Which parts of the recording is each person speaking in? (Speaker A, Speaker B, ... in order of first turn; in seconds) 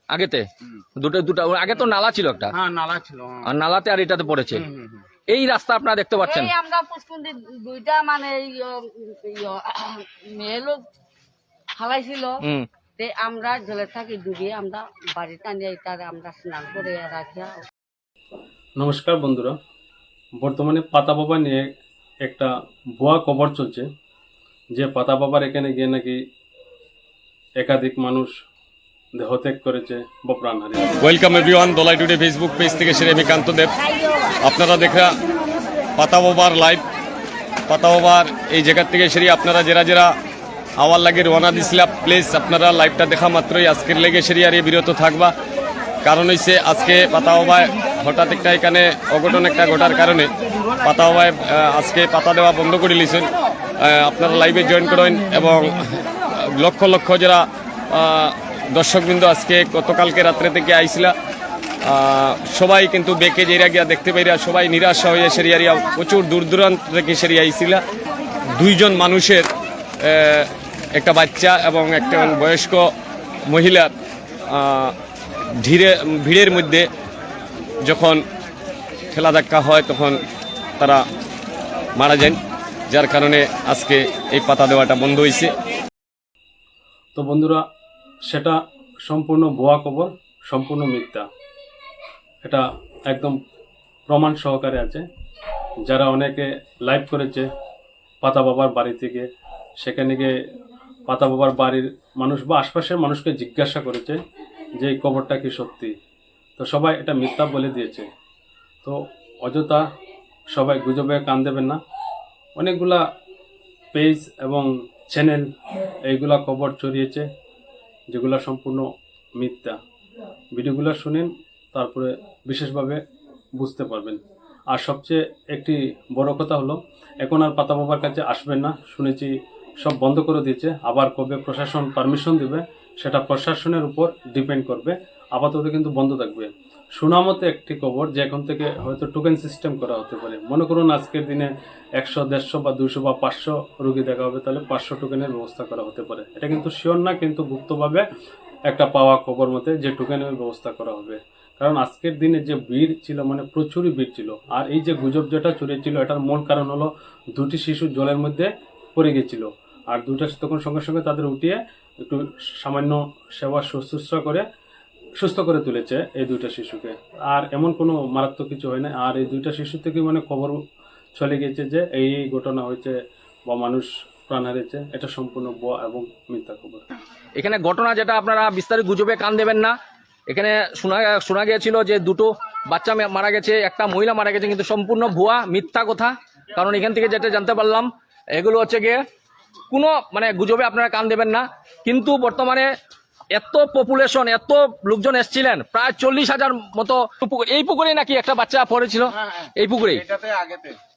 Speaker A: 0.1-0.5, 1.0-2.5, 3.4-4.7, 5.3-6.5, 177.4-179.7, 180.3-189.0, 189.7-192.7, 193.3-200.1
Speaker B: 2.6-3.4, 4.7-5.0, 199.2-200.8
Speaker C: 6.2-10.8, 11.8-12.4, 13.0-17.6
Speaker D: 18.8-19.5, 20.4-21.7, 22.2-23.9, 24.7-26.2, 27.6-28.3, 29.1-30.9, 87.1-87.6, 88.3-88.5, 89.1-91.2, 92.4-93.4, 94.1-95.0, 95.9-97.5, 98.2-99.2, 99.8-100.3, 101.1-104.2, 104.8-105.9, 106.6-108.1, 108.8-109.8, 110.5-111.8, 112.6-113.0, 113.9-115.5, 116.1-117.2, 118.1-118.9, 119.4-119.8, 120.5-123.0, 123.6-124.2, 124.7-148.0, 148.7-164.4, 165.2-170.6, 171.2-172.9, 173.5-176.8
Speaker E: 31.0-33.7, 34.4-35.2, 36.0-36.8, 37.7-40.1, 40.8-45.3, 46.0-61.1, 61.8-67.8, 68.5-69.5, 70.0-72.9, 73.5-73.9, 74.5-75.0, 75.6-76.9, 77.8-78.2, 79.1-80.2, 82.0-85.5